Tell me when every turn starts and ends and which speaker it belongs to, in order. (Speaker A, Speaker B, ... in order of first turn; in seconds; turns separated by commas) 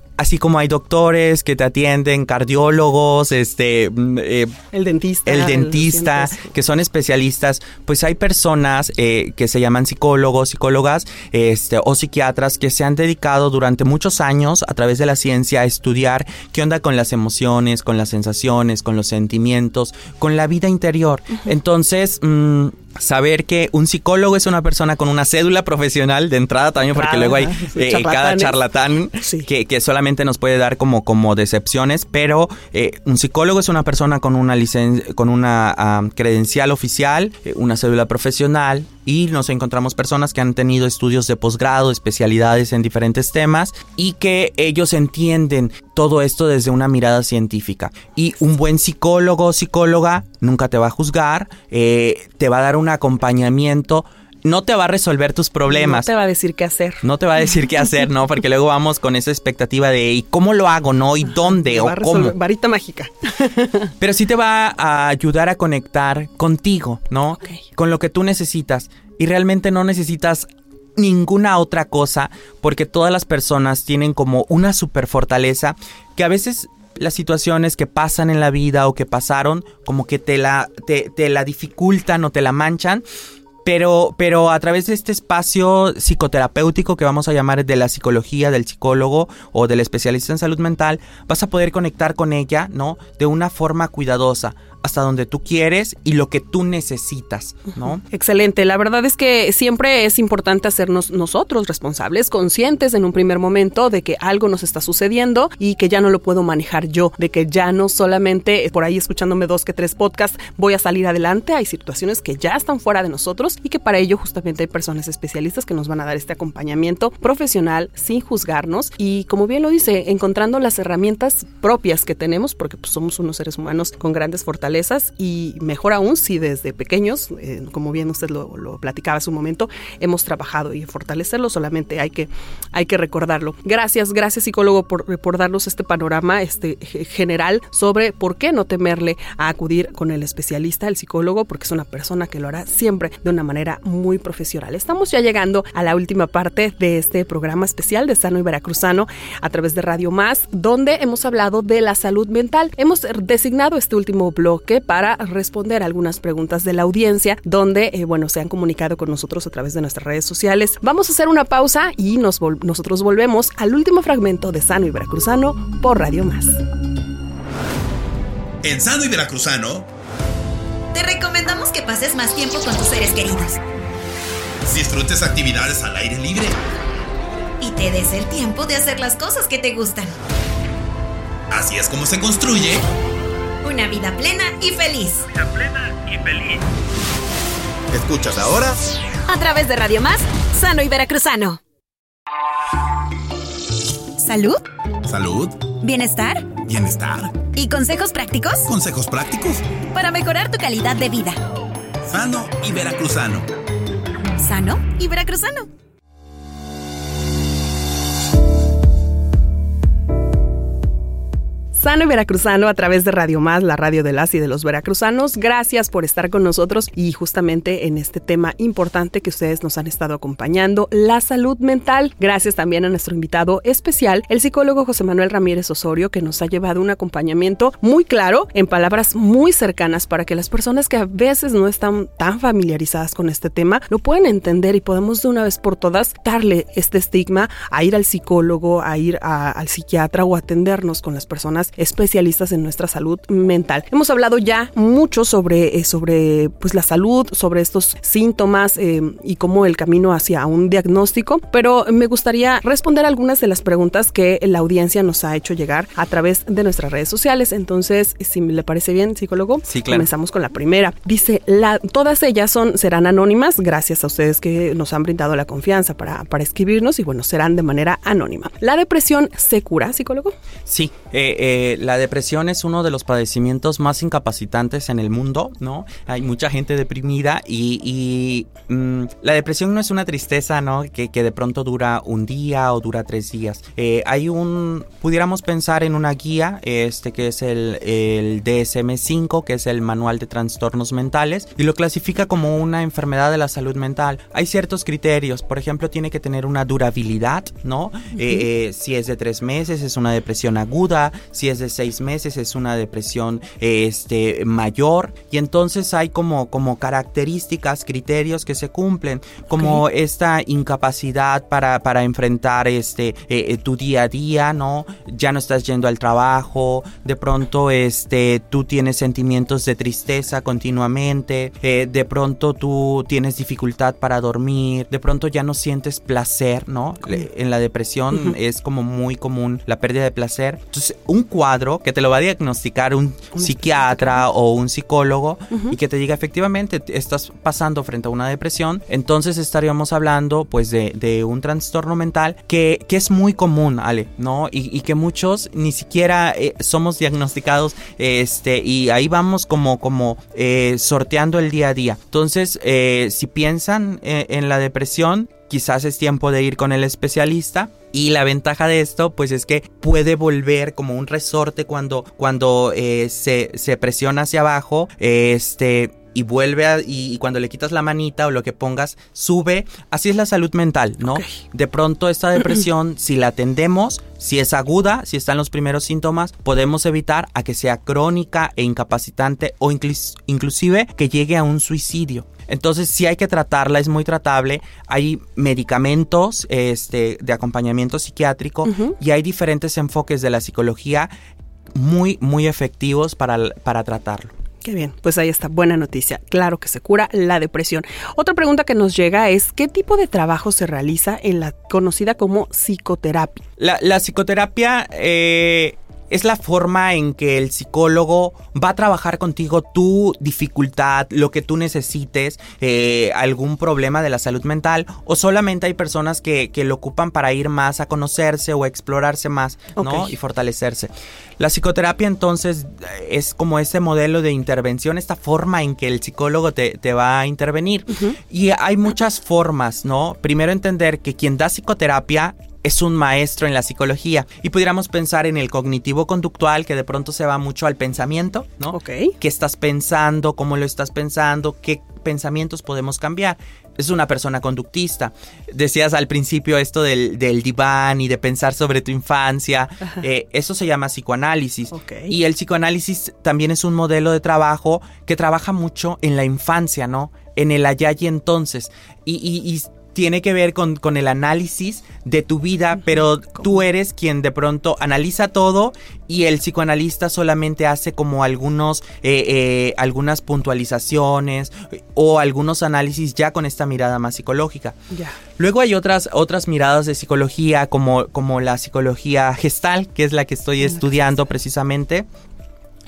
Speaker A: 0.2-4.5, Speaker B: 4.7-6.5, Speaker A: 5.2-56.1, Speaker B: 26.9-28.6, Speaker B: 29.2-29.5, Speaker B: 55.7-57.0, Speaker A: 57.0-62.4, Speaker B: 61.3-63.9, Speaker A: 64.0-83.0, Speaker A: 83.6-98.0, Speaker B: 97.9-166.6, Speaker C: 168.6-169.9, Speaker D: 170.9-173.6, Speaker C: 174.6-176.6, Speaker D: 177.6-180.1, Speaker C: 181.5-182.8, Speaker D: 183.6-185.3, Speaker C: 185.3-186.6, Speaker C: 187.9-188.8, Speaker D: 189.3-191.6, Speaker D: 194.2-194.6, Speaker C: 195.0-195.6, Speaker D: 195.8-196.5, Speaker C: 196.6-197.4, Speaker D: 197.5-198.7, Speaker C: 198.7-199.6, Speaker D: 199.9-201.4, Speaker C: 202.0-203.5, Speaker D: 204.3-205.7, Speaker B: 211.7-270.3, Speaker A: 259.6-260.1, Speaker A: 270.6-391.1, Speaker B: 309.6-309.8, Speaker B: 333.4-334.2, Speaker B: 371.1-371.3, Speaker B: 388.6-388.9, Speaker A: 391.7-394.3, Speaker B: 394.6-403.4, Speaker A: 403.6-474.8, Speaker B: 419.8-420.1, Speaker B: 438.7-439.1, Speaker B: 451.7-452.1, Speaker B: 474.9-475.2, Speaker A: 475.4-482.1